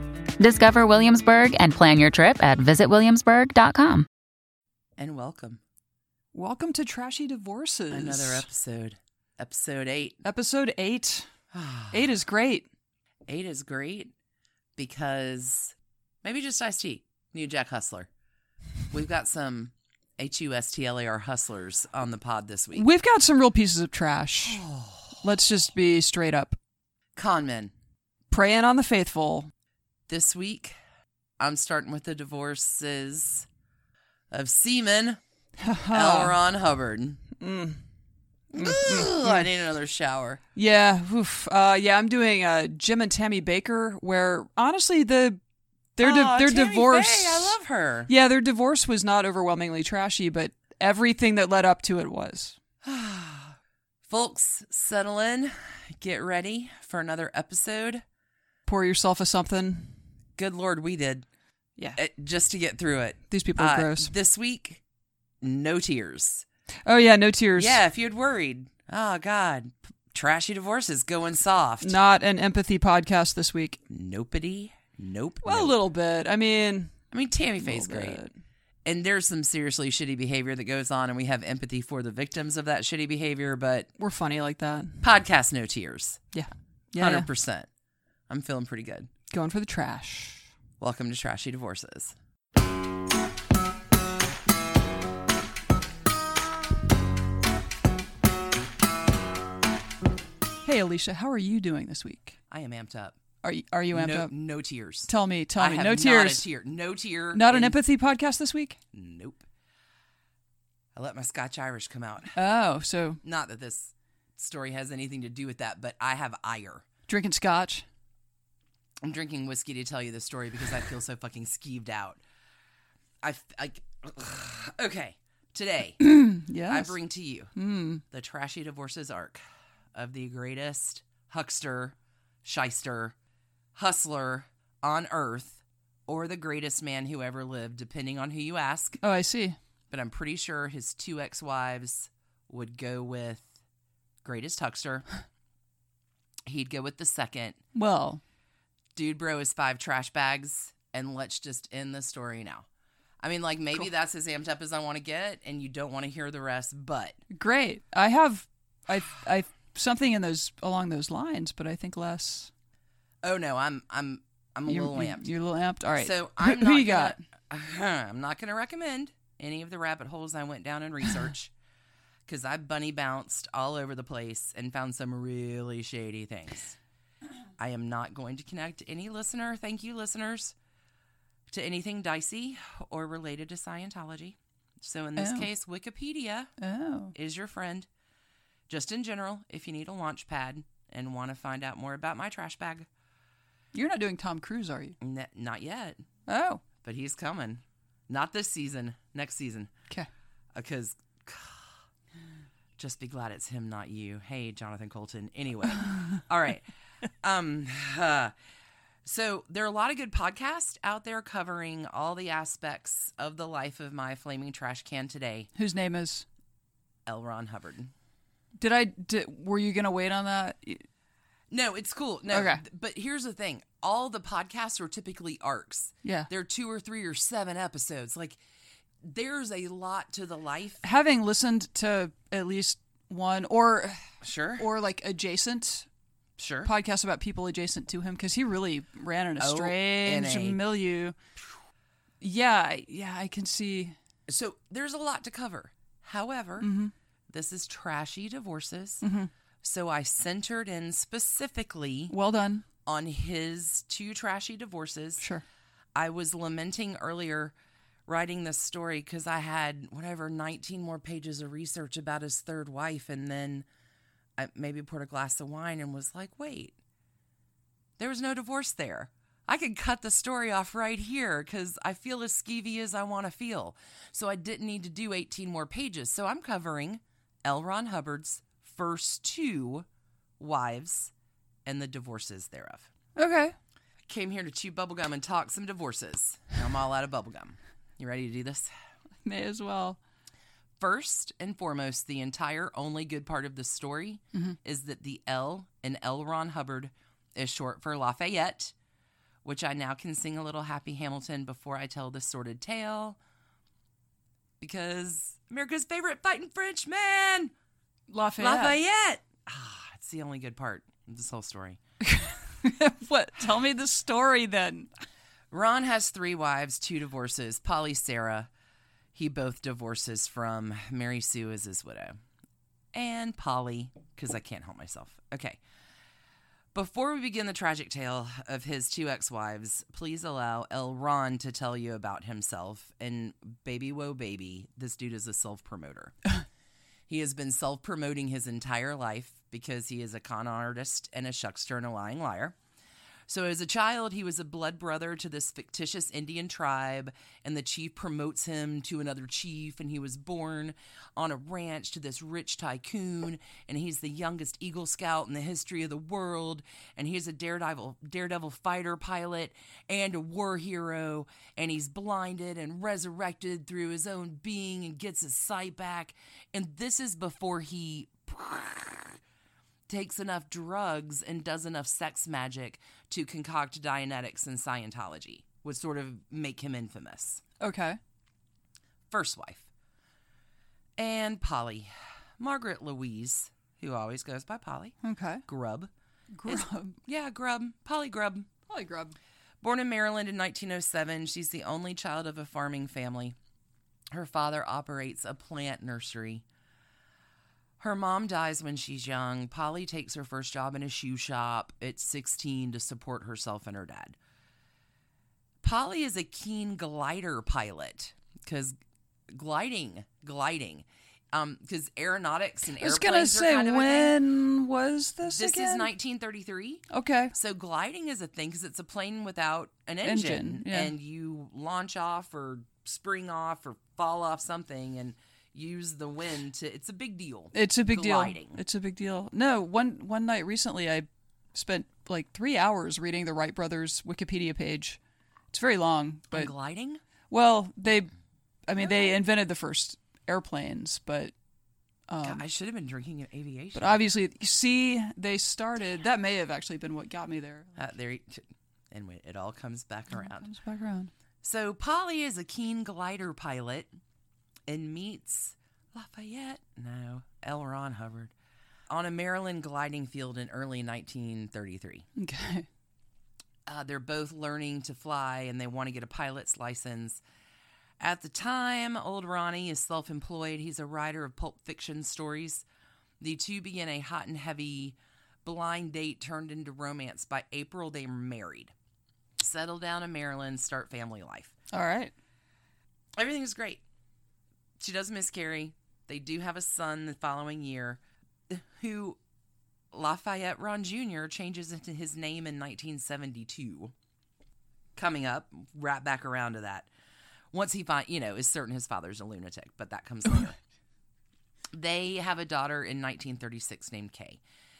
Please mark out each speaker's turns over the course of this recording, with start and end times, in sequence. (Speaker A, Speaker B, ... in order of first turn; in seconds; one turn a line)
Speaker A: 0.4-4.0
Speaker B: 5.0-5.6
Speaker C: 6.3-8.5
Speaker B: 7.9-10.2
Speaker C: 10.2-11.3
Speaker B: 11.5-12.1
Speaker C: 11.9-12.7
Speaker B: 13.3-14.1
Speaker B: 14.8-18.1
Speaker B: 18.9-22.9
Speaker C: 22.7-24.6
Speaker B: 24.4-25.2
Speaker C: 25.2-26.6
Speaker B: 27.1-27.7
Speaker C: 28.3-29.5
Speaker B: 30.1-30.8
Speaker B: 31.4-33.5
Speaker B: 34.3-35.2
Speaker C: 35.6-36.4
Speaker B: 35.9-37.2
Speaker C: 37.4-37.8
Speaker C: 38.5-39.5
Speaker B: 38.5-40.4
Speaker C: 40.5-45.4
Speaker C: 46.0-47.6
Speaker B: 46.0-48.1
Speaker C: 48.1-52.6
Speaker B: 52.8-58.0
Speaker C: 58.6-60.0
Speaker B: 60.4-61.2
Speaker B: 62.0-64.8
Speaker C: 63.3-64.1
Speaker B: 65.4-66.4
Speaker C: 66.8-67.8
Speaker B: 67.5-72.0
Speaker C: 71.8-73.8
Speaker B: 73.9-75.8
Speaker C: 75.4-77.0
Speaker B: 77.1-78.2
Speaker C: 77.6-78.3
Speaker B: 78.8-83.9
Speaker C: 84.0-85.0
Speaker B: 85.0-86.2
Speaker C: 86.3-87.3
Speaker B: 86.9-87.7
Speaker B: 88.3-89.1
Speaker C: 89.3-90.5
Speaker B: 90.8-92.1
Speaker C: 100.6-102.4
Speaker B: 102.5-103.2
Speaker C: 103.4-104.3
Speaker B: 103.9-107.8
Speaker C: 105.1-106.5
Speaker C: 107.3-108.8
Speaker B: 108.9-109.4
Speaker B: 110.9-112.4
Speaker C: 112.3-113.2
Speaker B: 113.2-116.8
Speaker C: 117.1-117.8
Speaker B: 119.0-122.2
Speaker B: 123.2-126.0
Speaker C: 126.0-127.0
Speaker B: 126.7-127.5
Speaker C: 127.5-128.0
Speaker B: 128.1-129.4
Speaker B: 129.9-133.2
Speaker B: 133.7-139.0
Speaker C: 139.0-139.6
Speaker B: 139.9-143.5
Speaker B: 144.2-145.1
Speaker B: 146.4-147.6
Speaker C: 147.7-148.2
Speaker B: 148.9-152.7
Speaker B: 153.2-157.2
Speaker C: 157.3-162.5
Speaker B: 163.2-165.3
Speaker C: 164.7-167.2
Speaker B: 166.0-171.5
Speaker B: 172.3-176.8
Speaker B: 177.6-180.5
Speaker B: 181.5-186.5
Speaker C: 185.2-185.5
Speaker C: 186.6-187.1
Speaker B: 187.1-187.9
Speaker B: 188.7-192.9
Speaker C: 193.7-194.9
Speaker B: 195.0-196.0
Speaker C: 196.3-196.6
Speaker B: 196.8-199.7
Speaker B: 200.5-201.7
Speaker B: 202.8-206.7
Speaker B: 207.2-208.3
Speaker B: 209.0-215.5
Speaker C: 215.5-216.2
Speaker B: 217.1-217.9
Speaker C: 218.6-220.8
Speaker B: 221.5-228.4
Speaker C: 222.3-222.6
Speaker C: 226.0-226.3
Speaker B: 229.0-230.8
Speaker C: 230.8-235.9
Speaker B: 234.2-234.7
Speaker B: 236.4-236.7
Speaker C: 236.6-241.2
Speaker B: 239.4-240.6
Speaker C: 242.2-243.9
Speaker B: 244.3-246.7
Speaker C: 246.6-246.9
Speaker B: 247.3-249.0
Speaker C: 249.0-249.3
Speaker B: 249.6-252.1
Speaker C: 252.1-252.6
Speaker B: 252.8-255.2
Speaker B: 255.9-257.5
Speaker B: 258.1-263.6
Speaker B: 264.4-266.8
Speaker B: 268.0-279.9
Speaker B: 280.4-281.1
Speaker B: 281.6-282.9
Speaker C: 283.1-283.5
Speaker B: 284.1-288.7
Speaker C: 289.2-290.0
Speaker B: 290.8-298.7
Speaker B: 299.4-303.2
Speaker B: 304.6-307.5
Speaker C: 308.1-308.8
Speaker B: 308.4-311.8
Speaker C: 312.0-314.9
Speaker B: 315.5-318.5
Speaker B: 319.1-322.2
Speaker B: 322.9-325.6
Speaker B: 326.7-336.1
Speaker B: 337.1-342.5
Speaker B: 343.3-369.2
Speaker B: 369.9-377.4
Speaker C: 377.6-378.0
Speaker B: 379.1-379.7
Speaker B: 381.0-385.9
Speaker C: 385.0-385.4
Speaker C: 386.3-386.9
Speaker B: 386.5-388.5
Speaker C: 388.7-389.1
Speaker B: 389.6-393.4
Speaker B: 394.1-396.4
Speaker B: 397.8-404.1
Speaker B: 405.6-408.7
Speaker B: 409.3-414.2
Speaker C: 412.8-415.9
Speaker B: 415.2-428.6
Speaker C: 416.9-417.3
Speaker C: 420.0-420.9
Speaker C: 427.5-435.0
Speaker C: 435.5-436.5
Speaker B: 436.3-437.0
Speaker C: 437.3-438.1
Speaker C: 438.7-441.3
Speaker B: 438.8-439.2
Speaker C: 442.1-442.4
Speaker B: 442.2-444.0
Speaker C: 443.7-447.8
Speaker B: 447.8-450.5
Speaker C: 450.1-451.1
Speaker B: 451.4-453.9
Speaker B: 454.7-458.3
Speaker B: 458.9-462.1
Speaker C: 462.1-462.7
Speaker B: 463.7-467.2
Speaker B: 468.0-472.6
Speaker B: 473.2-478.7
Speaker B: 479.4-481.5
Speaker C: 481.7-482.1
Speaker B: 483.2-483.8
Speaker B: 484.8-489.2
Speaker B: 489.9-493.9
Speaker B: 494.9-496.9
Speaker B: 497.5-500.6
Speaker B: 501.7-504.4